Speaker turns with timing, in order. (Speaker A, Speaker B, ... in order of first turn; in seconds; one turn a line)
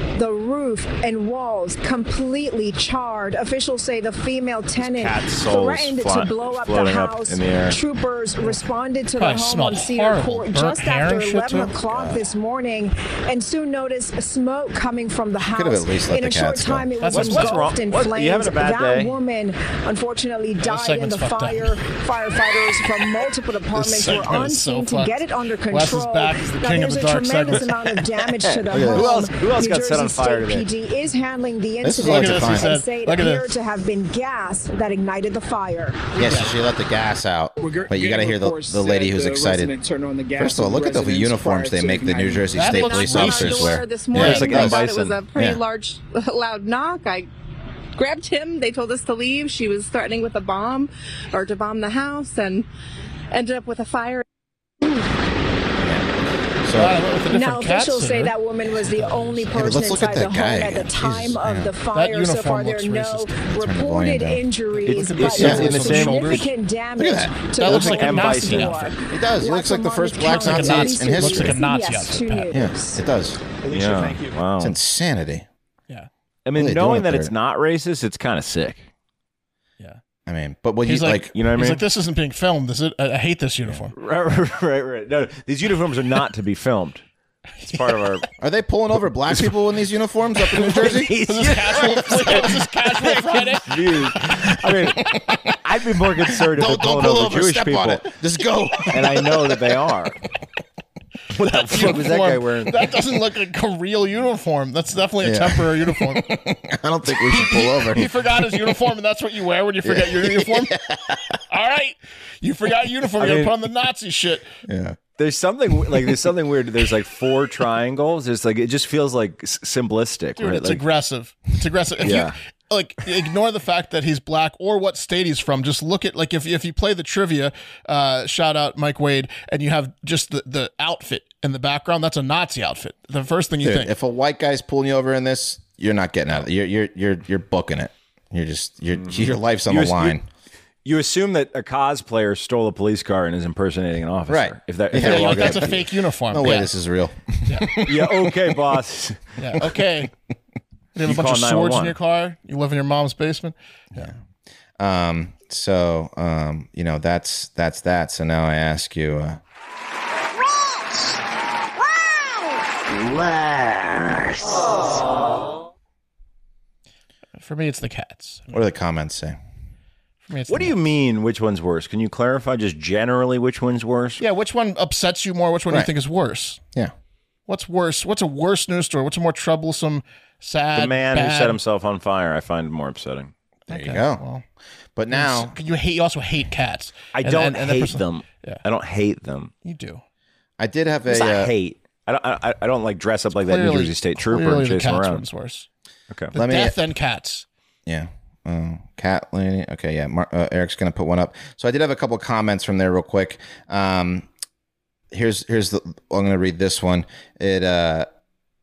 Speaker A: 0.1-36.1
Speaker B: 4.8-7.8
Speaker C: 9.2-11.8
Speaker D: 11.9-12.2
Speaker D: 15.4-16.9
Speaker C: 17.0-17.7
Speaker B: 17.1-19.2
Speaker C: 20.6-21.8
Speaker C: 23.7-28.0
Speaker B: 28.4-30.7
Speaker D: 28.7-29.1
Speaker D: 31.8-32.7
Speaker C: 32.0-33.5
Speaker D: 36.2-39.7
Speaker C: 36.2-36.6
Speaker E: 37.6-42.5
Speaker D: 40.4-44.8
Speaker C: 42.5-43.8
Speaker A: 42.7-43.7
Speaker F: 43.3-47.3
Speaker B: 44.1-45.2
Speaker D: 45.4-45.6
Speaker F: 48.0-52.7
Speaker F: 53.3-54.2
Speaker D: 55.8-56.1
Speaker D: 56.6-57.0
Speaker C: 56.8-58.3
Speaker A: 57.3-73.0
Speaker C: 58.9-59.8
Speaker D: 59.5-61.7
Speaker C: 61.9-63.4
Speaker D: 63.5-64.5
Speaker C: 64.7-66.5
Speaker B: 64.9-66.5
Speaker D: 65.4-65.7
Speaker D: 67.0-67.4
Speaker C: 67.6-68.9
Speaker B: 67.6-68.9
Speaker D: 69.1-71.6
Speaker C: 70.2-72.6
Speaker D: 72.5-73.4
Speaker E: 73.7-74.3
Speaker B: 73.7-74.8
Speaker D: 74.6-75.5
Speaker B: 76.5-78.9
Speaker D: 76.6-77.3
Speaker D: 80.3-81.3
Speaker C: 80.8-83.9
Speaker B: 81.3-81.8
Speaker B: 83.9-87.0
Speaker B: 87.6-88.3
Speaker D: 88.4-91.1
Speaker B: 90.5-95.0
Speaker C: 90.6-93.9
Speaker D: 94.8-95.3
Speaker B: 95.6-98.1
Speaker D: 96.4-99.6
Speaker B: 98.9-100.2
Speaker B: 101.3-102.9
Speaker C: 101.5-106.3
Speaker D: 105.2-108.8
Speaker C: 107.3-110.7
Speaker D: 109.8-111.4
Speaker C: 111.5-114.5
Speaker B: 113.2-113.5
Speaker D: 114.7-115.0
Speaker B: 115.2-120.8
Speaker C: 120.4-133.9
Speaker B: 122.0-122.3
Speaker D: 133.6-140.2
Speaker B: 138.9-140.2
Speaker B: 140.8-145.8
Speaker D: 144.3-148.6
Speaker C: 145.0-146.7
Speaker C: 147.5-147.8
Speaker B: 147.8-149.2
Speaker C: 149.4-150.1
Speaker C: 150.9-154.1
Speaker B: 151.0-152.0
Speaker D: 153.9-154.2
Speaker D: 154.8-159.4
Speaker C: 167.4-168.6
Speaker D: 168.5-169.4
Speaker C: 170.2-170.8
Speaker B: 170.5-174.2
Speaker C: 174.2-176.6
Speaker C: 177.5-181.6
Speaker B: 180.8-183.3
Speaker C: 183.7-184.4
Speaker D: 183.7-184.2
Speaker D: 185.0-185.5
Speaker C: 185.1-188.6
Speaker B: 187.2-189.5
Speaker C: 189.6-190.0
Speaker D: 190.6-191.5
Speaker B: 191.1-195.2
Speaker C: 193.4-195.7
Speaker D: 196.3-196.8
Speaker C: 196.3-197.5
Speaker D: 197.9-204.3
Speaker D: 205.1-208.1